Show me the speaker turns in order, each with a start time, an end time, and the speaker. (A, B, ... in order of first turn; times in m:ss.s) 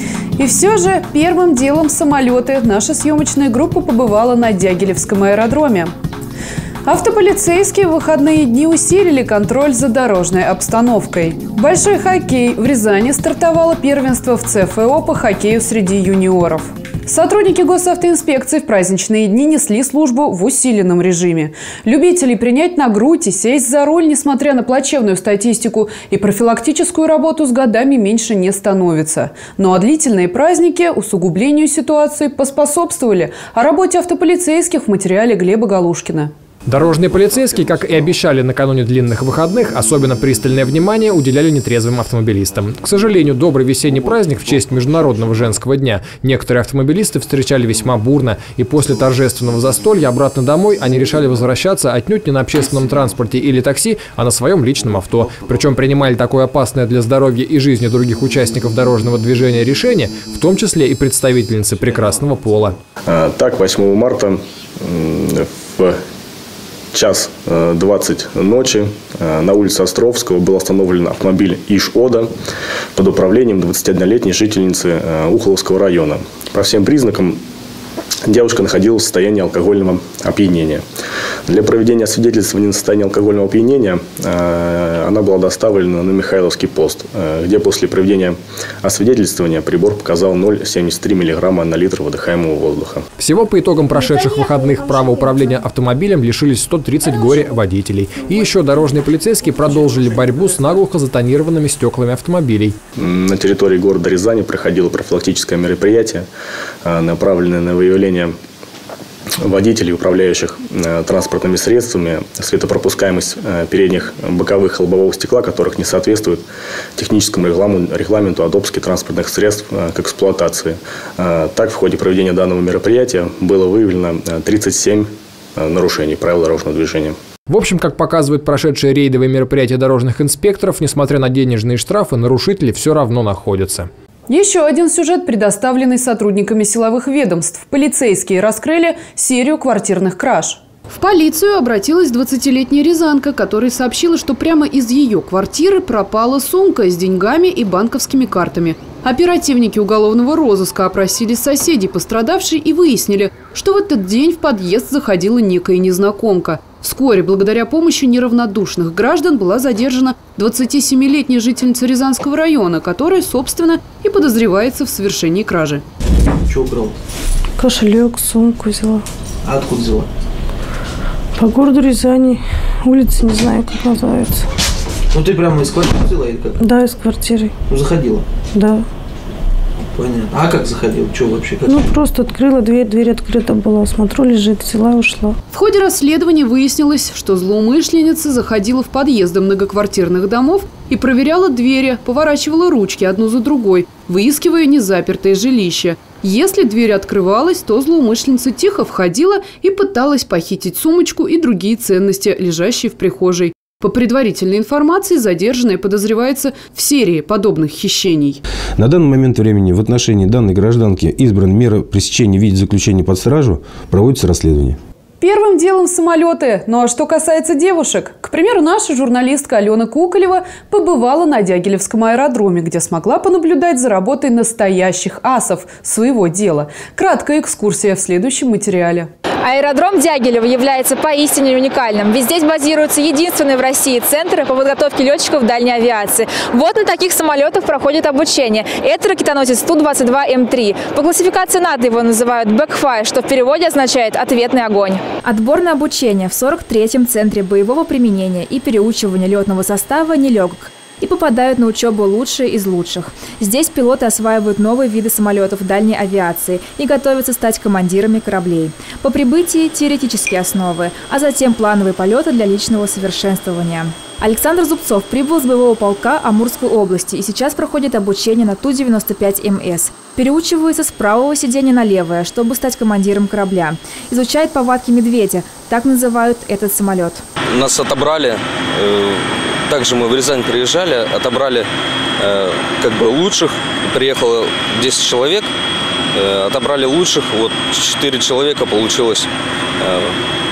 0:00.4-0:05.9 A
0:06.8-0:36.3 A
0:36.7-1:02.8 B
1:03.1-1:06.0 C
1:06.9-1:12.3 C
1:13.0-1:17.4 C
1:18.3-1:20.8 C
1:21.5-1:33.0 C
1:33.2-1:42.8 B
1:43.0-1:46.3 C
1:46.8-1:48.3 C
1:49.4-1:56.4 C
1:57.0-2:07.2 C
2:07.5-2:13.9 B
2:14.3-2:45.8 A
2:46.5-2:47.0 D
2:47.6-2:49.0 E
2:49.4-2:50.1 D
2:51.4-2:54.4 E
2:55.1-2:56.6 D
2:56.6-2:57.5 E
2:57.7-2:58.2 D
2:58.5-2:58.8 E
3:00.0-3:01.8 D
3:01.7-3:05.4 E
3:05.5-3:28.4 A
3:28.8-3:34.8 F
3:35.2-3:49.1 A
3:49.4-4:37.2 G
4:37.5-4:41.7 H
4:42.2-4:45.5 H
4:46.1-4:50.1 H